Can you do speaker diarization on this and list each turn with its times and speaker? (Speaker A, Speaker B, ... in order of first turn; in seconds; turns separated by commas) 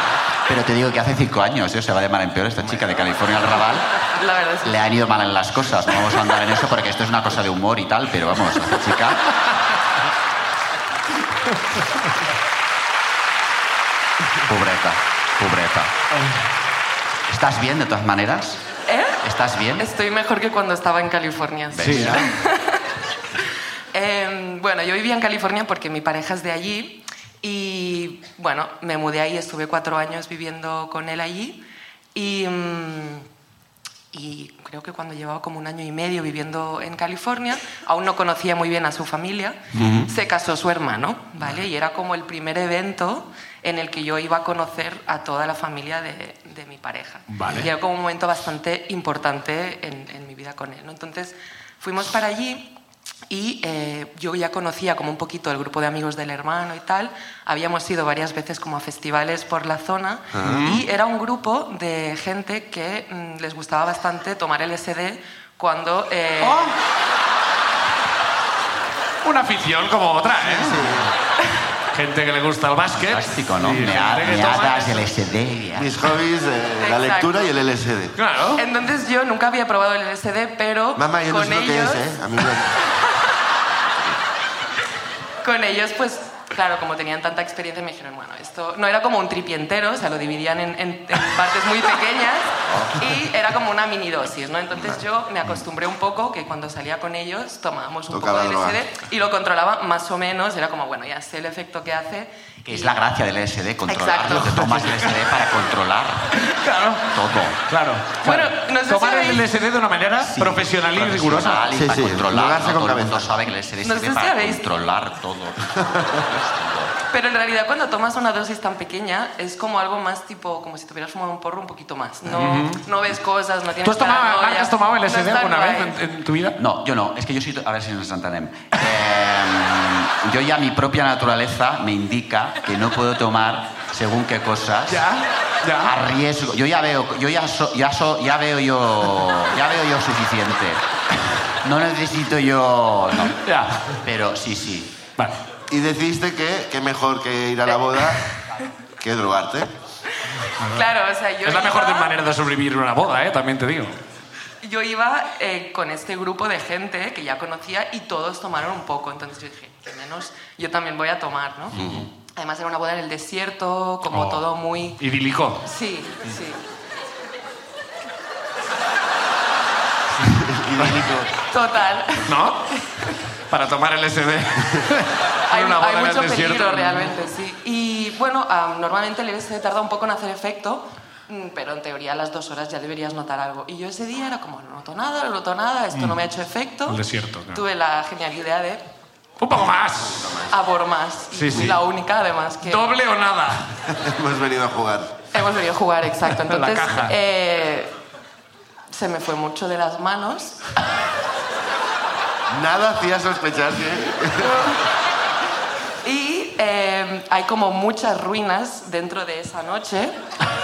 Speaker A: 0.5-3.9, Speaker B: 2.6-3.0, Speaker C: 4.2-4.8, Speaker A: 4.6-9.3, Speaker A: 14.5-15.9, Speaker A: 17.3-18.6, Speaker C: 18.9-19.2, Speaker A: 19.2-19.9, Speaker C: 19.8-22.8, Speaker A: 21.7-22.3, Speaker D: 21.8-22.3, Speaker C: 23.9-31.6, Speaker C: 32.1-33.3, Speaker C: 34.1-52.7, Speaker B: 39.7-40.1, Speaker D: 47.3-47.7, Speaker C: 53.3-66.7, Speaker B: 60.3-60.6, Speaker D: 60.5-60.8, Speaker D: 66.4-66.7, Speaker D: 69.2-70.9, Speaker B: 70.4-71.1, Speaker D: 71.9-75.0, Speaker A: 72.9-75.9, Speaker B: 75.8-78.2, Speaker C: 76.8-77.6, Speaker D: 78.2-78.6, Speaker C: 78.5-82.1, Speaker B: 81.0-82.8, Speaker C: 85.4-103.0, Speaker B: 94.8-95.0, Speaker B: 98.1-98.8, Speaker A: 102.7-106.4, Speaker C: 103.9-104.5, Speaker D: 106.4-107.0, Speaker A: 107.1-107.6, Speaker D: 107.7-111.7, Speaker C: 108.2-109.5, Speaker A: 110.2-116.9, Speaker B: 111.7-113.3, Speaker C: 113.8-114.7, Speaker C: 117.1-126.0, Speaker D: 122.3-122.8, Speaker D: 123.8-126.6, Speaker A: 126.6-135.1, Speaker D: 134.9-135.9, Speaker A: 135.8-140.8, Speaker A: 141.5-143.4, Speaker D: 143.4-143.8, Speaker A: 144.0-144.9, Speaker B: 145.7-148.2, Speaker B: 149.0-149.7, Speaker C: 150.3-152.2, Speaker D: 150.6-150.9, Speaker D: 151.4-153.9, Speaker C: 154.6-161.8, Speaker B: 161.7-162.1, Speaker C: 162.3-165.0, Speaker D: 164.1-164.4, Speaker D: 165.0-165.6, Speaker C: 165.6-166.6, Speaker B: 170.2-171.3, Speaker C: 171.5-173.2, Speaker D: 172.2-172.8, Speaker D: 173.5-177.2, Speaker C: 175.5-188.8, Speaker D: 186.9-187.6, Speaker D: 189.4-190.3, Speaker B: 190.1-190.5, Speaker C: 190.5-192.9, Speaker D: 191.3-191.8, Speaker D: 192.6-193.6, Speaker B: 193.9-195.1, Speaker C: 195.3-197.9, Speaker D: 196.4-197.2, Speaker C: 198.9-200.6, Speaker B: 202.5-204.7, Speaker C: 206.0-210.2